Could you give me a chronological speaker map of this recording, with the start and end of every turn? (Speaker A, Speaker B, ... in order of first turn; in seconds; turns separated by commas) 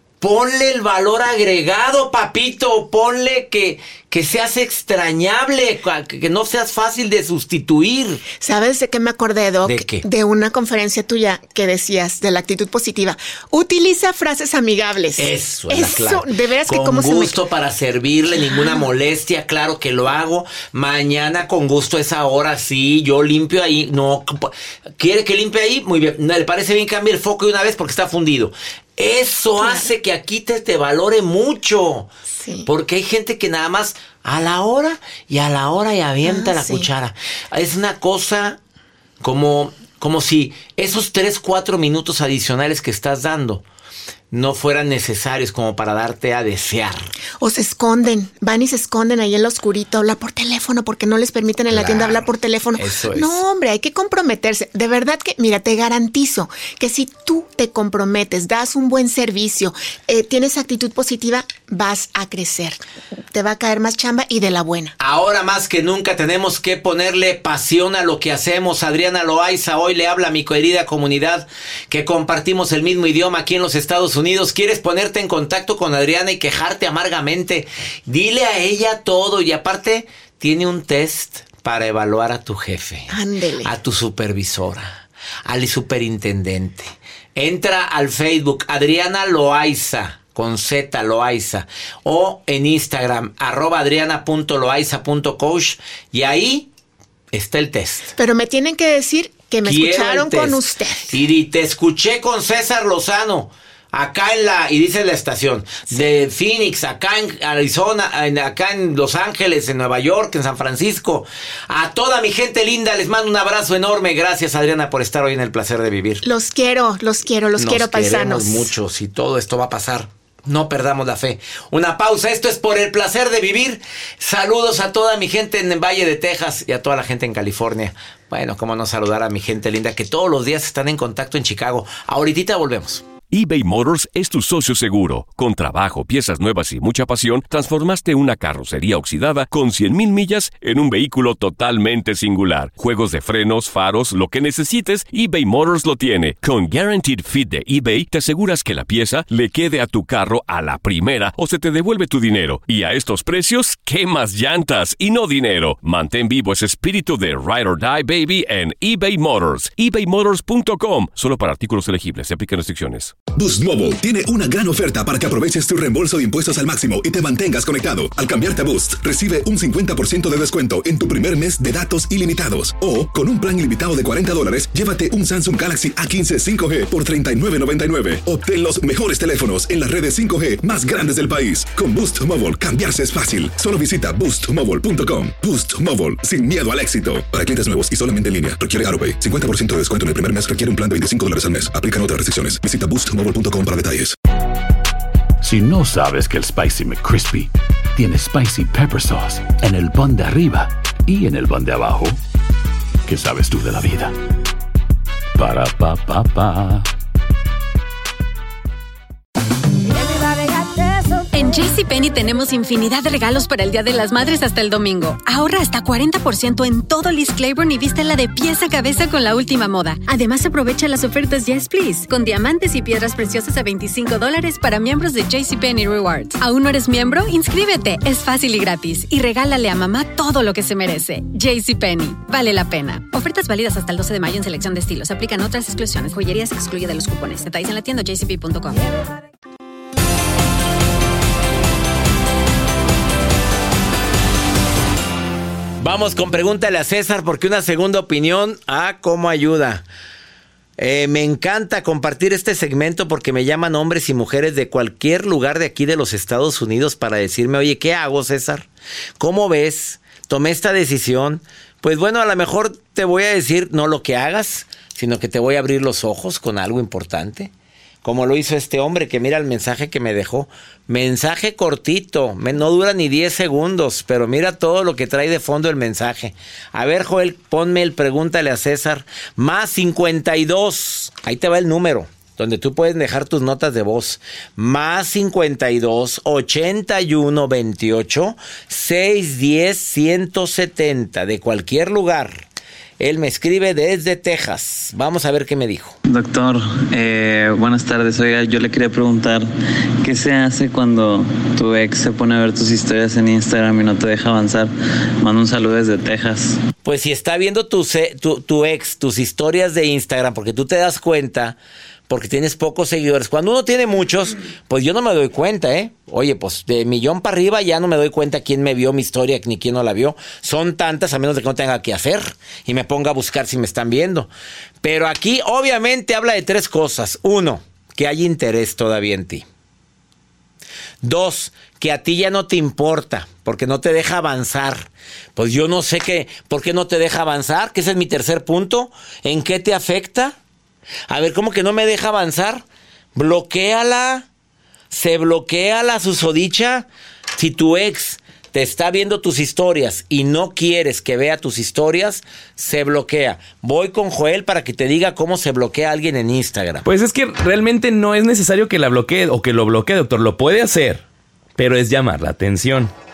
Speaker A: 0.2-8.2, Speaker B: 8.4-17.4, Speaker A: 9.7-10.1, Speaker A: 15.2-32.1, Speaker B: 18.4-18.8, Speaker B: 29.6-29.9, Speaker B: 32.3-32.7, Speaker A: 32.6-38.6, Speaker B: 36.2-36.9, Speaker A: 39.2-43.6, Speaker A: 44.3-47.1, Speaker B: 47.4-62.8, Speaker A: 51.7-53.4, Speaker B: 63.3-65.0, Speaker A: 65.0-96.7, Speaker B: 83.1-83.7, Speaker A: 97.3-98.1, Speaker B: 98.2-101.1, Speaker A: 99.6-116.2, Speaker B: 116.2-118.7, Speaker A: 117.6-133.0, Speaker C: 133.3-163.1, Speaker D: 163.3-194.2, Speaker E: 195.4-202.2, Speaker E: 203.1-204.1, Speaker E: 205.4-206.9, Speaker F: 211.3-238.8, Speaker A: 245.8-249.8, Speaker A: 250.8-258.7, Speaker A: 259.2-267.5, Speaker A: 268.0-292.4, Speaker A: 293.0-295.9, Speaker G: 296.1-299.5, Speaker G: 300.0-306.6, Speaker A: 306.8-311.6, Speaker A: 312.1-324.3, Speaker A: 324.8-329.4, Speaker A: 331.0-340.4, Speaker A: 341.1-342.6, Speaker A: 343.1-344.3, Speaker A: 344.9-356.9, Speaker H: 356.9-361.1, Speaker H: 361.6-362.9